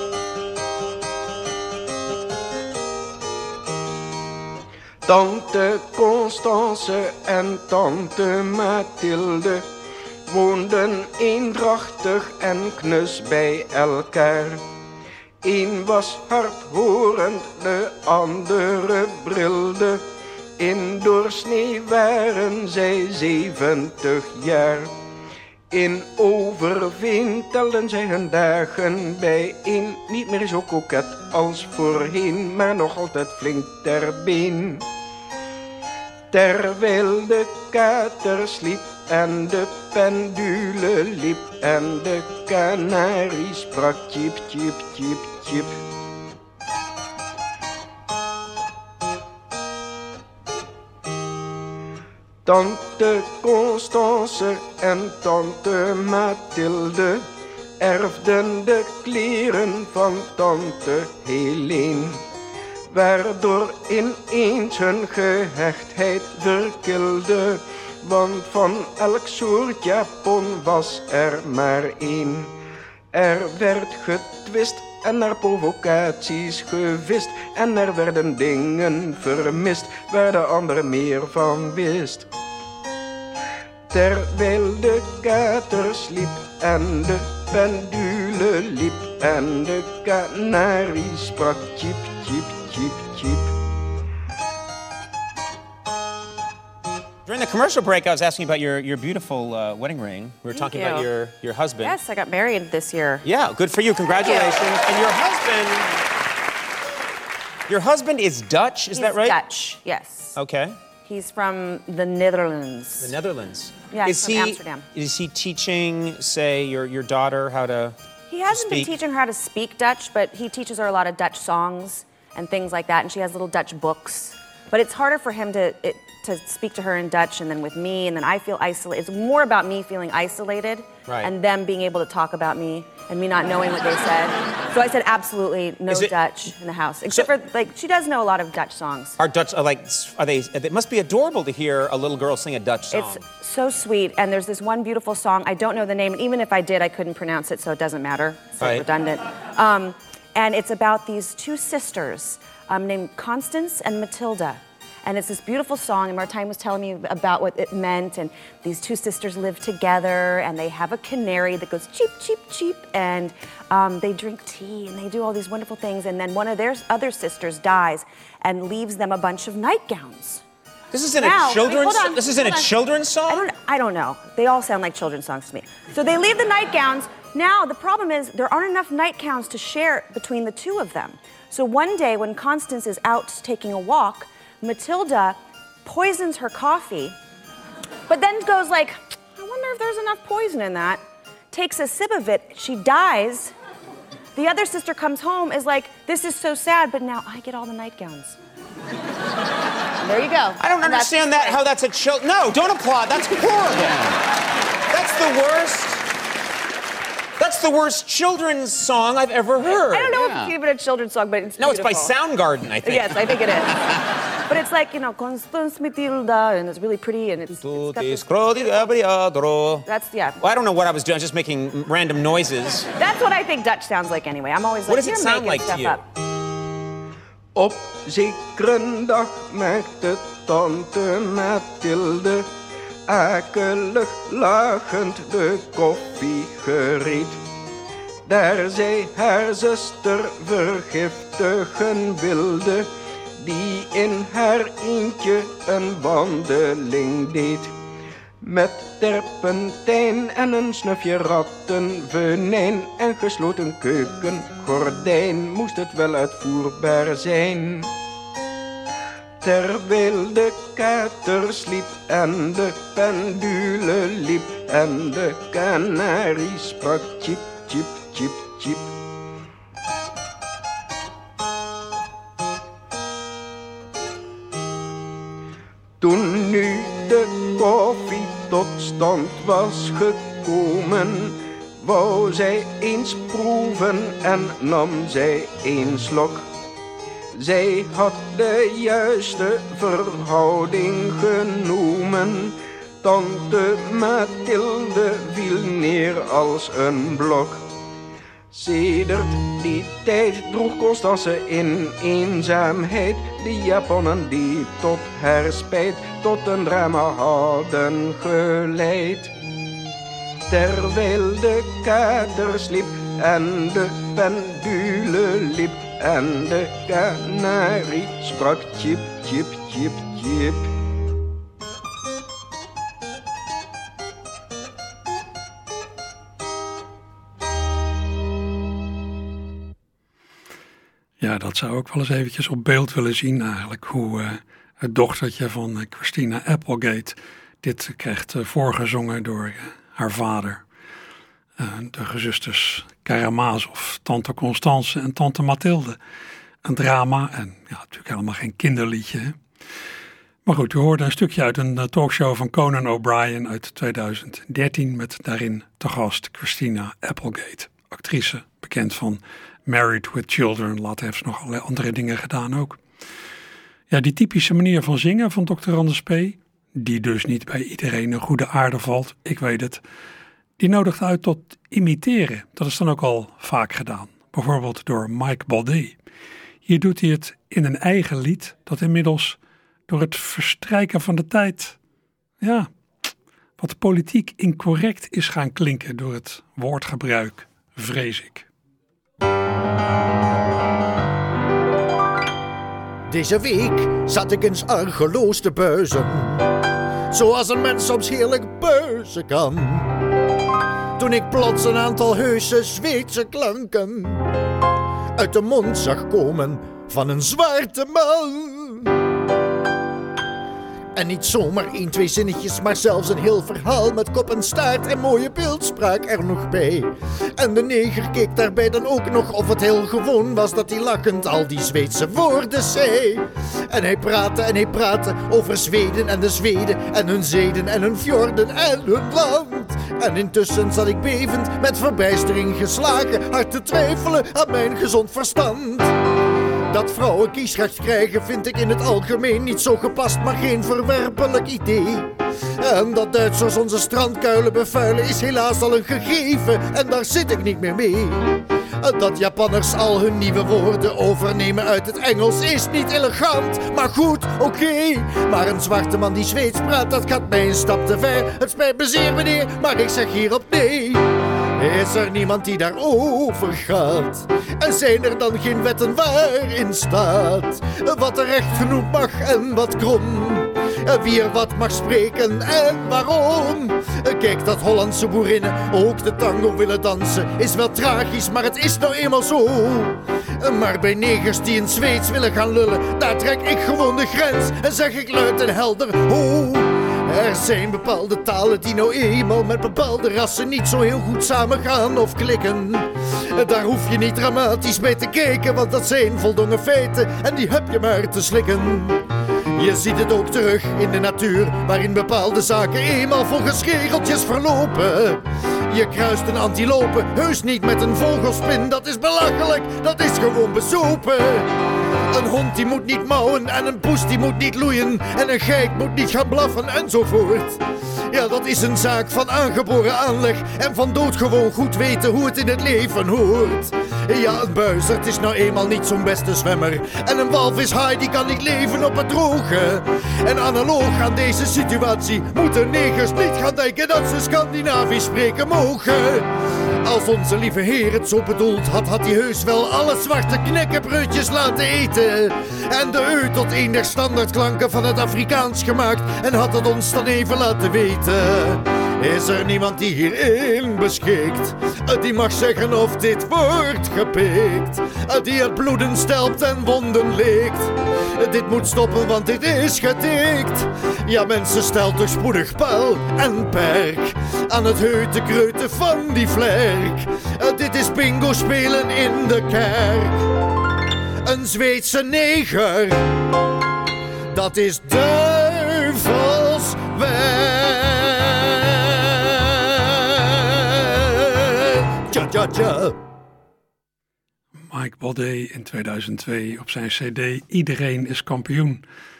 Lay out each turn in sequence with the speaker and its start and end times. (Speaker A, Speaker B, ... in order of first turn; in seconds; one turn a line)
Speaker A: 5.1-9.7
Speaker A: 10.3-14.6
Speaker A: 15.4-20.1
Speaker A: 20.6-24.9
Speaker A: 25.7-34.9
Speaker A: 36.3-45.8
Speaker A: 52.4-57.3
Speaker A: 57.8-62.2
Speaker A: 62.9-72.5
Speaker A: 73.1-82.3
Speaker A: 83.9-93.5
Speaker B: 97.2-102.0
Speaker C: 100.5-101.1
Speaker C: 101.8-103.2
Speaker B: 103.2-106.0
Speaker C: 104.1-104.6
Speaker B: 107.7-109.4
Speaker C: 108.9-110.4
Speaker B: 110.3-110.8
Speaker C: 111.0-113.1
Speaker B: 113.0-118.0
Speaker C: 113.9-114.9
Speaker C: 118.3-139.2
Speaker B: 118.5-119.0
Speaker B: 135.9-136.1
Speaker B: 139.2-143.2
Speaker C: 142.9-170.4
Speaker B: 148.6-148.9
Speaker B: 170.9-173.5
Speaker C: 171.2-187.2
Speaker C: 188.1-191.0
Speaker C: 191.5-193.5
Speaker C: 194.4-198.4
Speaker C: 200.0-201.6
Speaker B: 200.6-204.2
Speaker B: 204.9-206.1
Speaker B: 207.4-210.5
Speaker C: 209.6-212.2
Speaker B: 211.6-213.9
Speaker C: 212.8-213.9
Speaker C: 214.4-218.2
Speaker B: 217.6-219.9
Speaker C: 219.9-220.4
Speaker B: 220.4-222.9
Speaker C: 223.0-226.0
Speaker B: 224.9-226.0
Speaker A: 227.6-232.5
Speaker A: 233.1-237.4
Speaker A: 238.3-247.8
Speaker A: 248.4-257.9
Speaker A: 259.4-268.9
Speaker A: 276.0-286.5
Speaker A: 287.3-297.6
Speaker A: 298.5-309.3
Speaker A: 310.5-320.7
Speaker D: 331.2-340.6
Speaker D: 341.6-346.0
Speaker D: 346.6-349.4
Speaker D: 350.5-362.8
Speaker D: 363.9-369.8
Speaker D: 370.6-376.0
Speaker D: 376.7-379.4
Speaker D: 379.9-381.8
Speaker D: 382.4-382.7
Speaker D: 383.6-388.5
Speaker E: 393.1-396.4
Speaker E: 397.1-399.9
Speaker E: 401.0-404.3
Speaker E: 405.2-408.9
Speaker E: 410.9-435.9
Speaker E: 436.7-461.1
Speaker E: 461.6-499.0
Speaker E: 499.6-511.5
Speaker E: 512.1-536.3
Speaker E: 536.8-570.2
Speaker E: 571.2-573.1
Speaker E: 574.3-583.0
Speaker D: 584.7-588.8